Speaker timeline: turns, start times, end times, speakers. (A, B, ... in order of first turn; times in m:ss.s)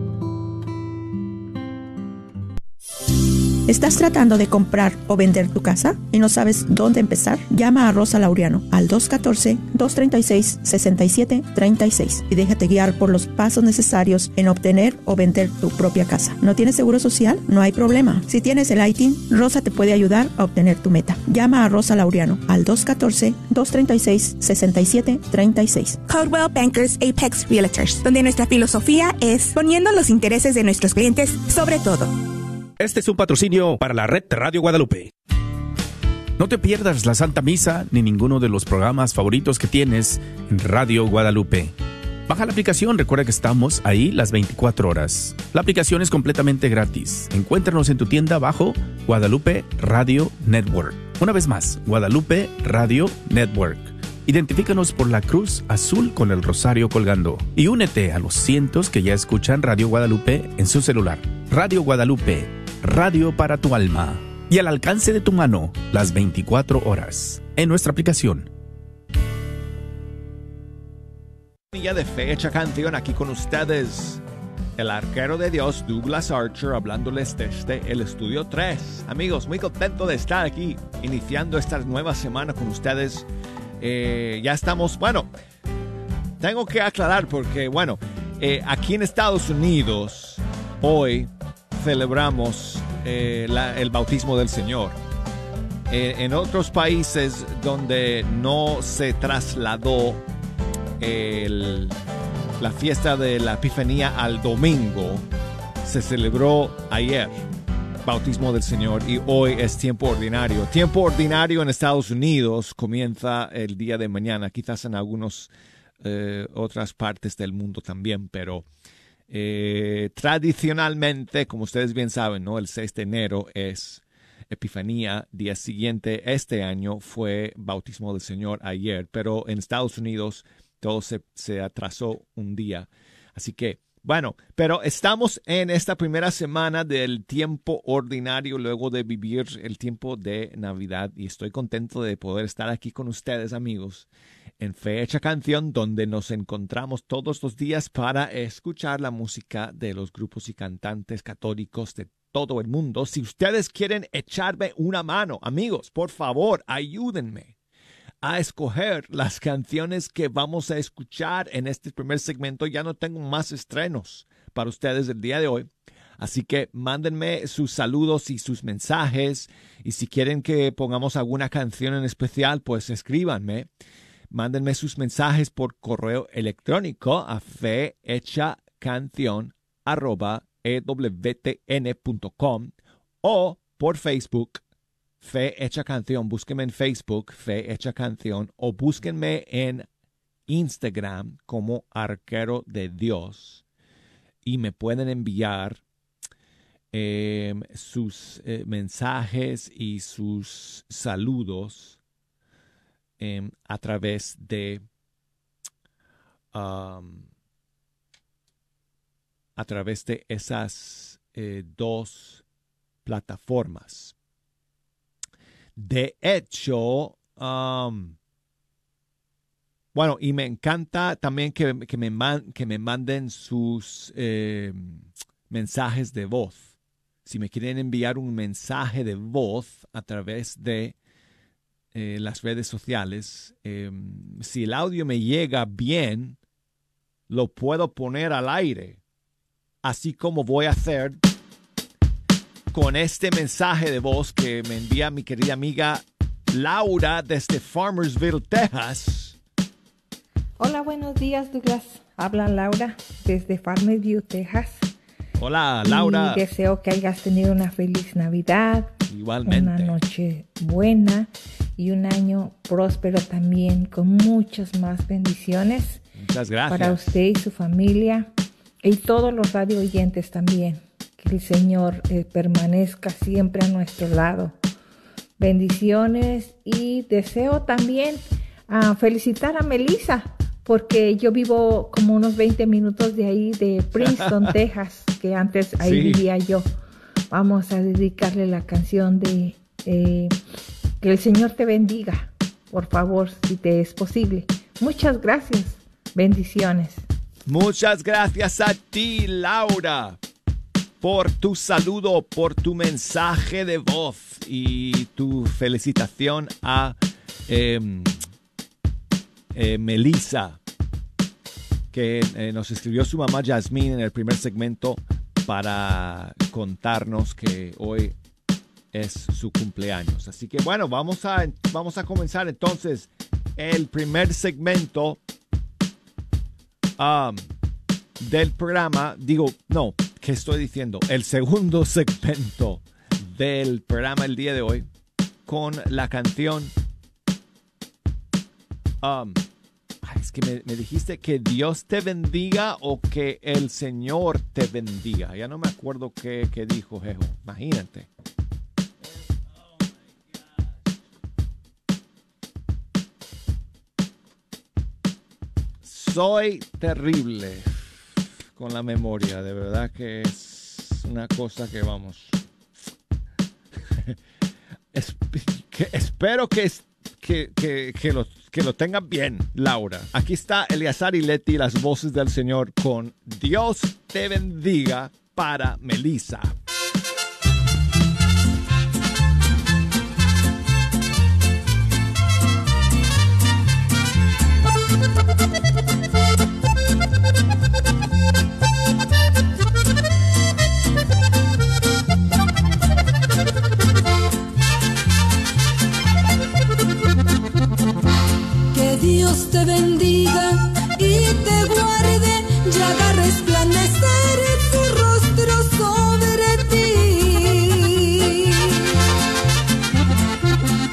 0:03.7-0:26.0 A
0:26.1-0:32.1 B
0:32.8-0:35.1 C
0:36.4-0:41.7 C
0:42.3-1:08.5 C
1:11.7-1:14.2 D
1:14.8-1:23.3 D
1:23.8-1:25.3 D
1:26.4-1:35.0 D
1:35.9-1:40.2 D
1:41.0-1:42.0 D
1:42.6-1:45.3 D
1:45.8-1:47.4 D
1:48.0-1:58.7 D
1:59.3-2:24.1 D
2:24.6-2:37.5 D
2:38.2-2:53.7 D
2:54.3-3:04.6 D
3:05.2-3:09.9 D
3:10.5-3:13.6 D
3:14.4-3:15.8 D
3:16.9-3:22.0 D
3:23.2-3:24.8 D
3:26.5-3:27.3 D
3:29.6-3:32.4 D
3:33.0-3:34.1 D
3:35.8-3:38.2 D
3:39.9-3:46.7 D
3:47.2-3:51.0 D
3:51.9-3:56.4 D
3:57.3-3:59.0 D
3:59.8-4:01.2 D
4:02.7-4:09.4 D
4:10.6-4:14.9 E
4:15.4-4:16.5 D
4:15.8-4:18.9 E
4:19.1-4:20.0 D
4:19.4-4:26.0 E
4:26.2-4:27.0 D
4:26.7-4:28.3 E
4:28.8-4:34.6 E
4:35.4-4:46.7 E
4:44.0-4:44.5 D
4:45.8-4:46.2 D
4:47.3-4:50.4 E
4:51.0-4:57.0 E
4:57.4-5:00.2 D
5:01.0-5:08.2 D
5:09.5-5:10.6 D
5:11.9-5:18.2 D
5:18.9-5:25.2 D
5:27.0-5:27.5 D
5:28.2-5:34.9 D
5:35.4-5:36.7 D
5:39.0-5:39.4 D
5:40.0-5:48.1 D
5:55.8-5:57.8 D
5:58.5-6:02.4 D
6:04.9-6:16.6 D
6:38.7-6:48.9 F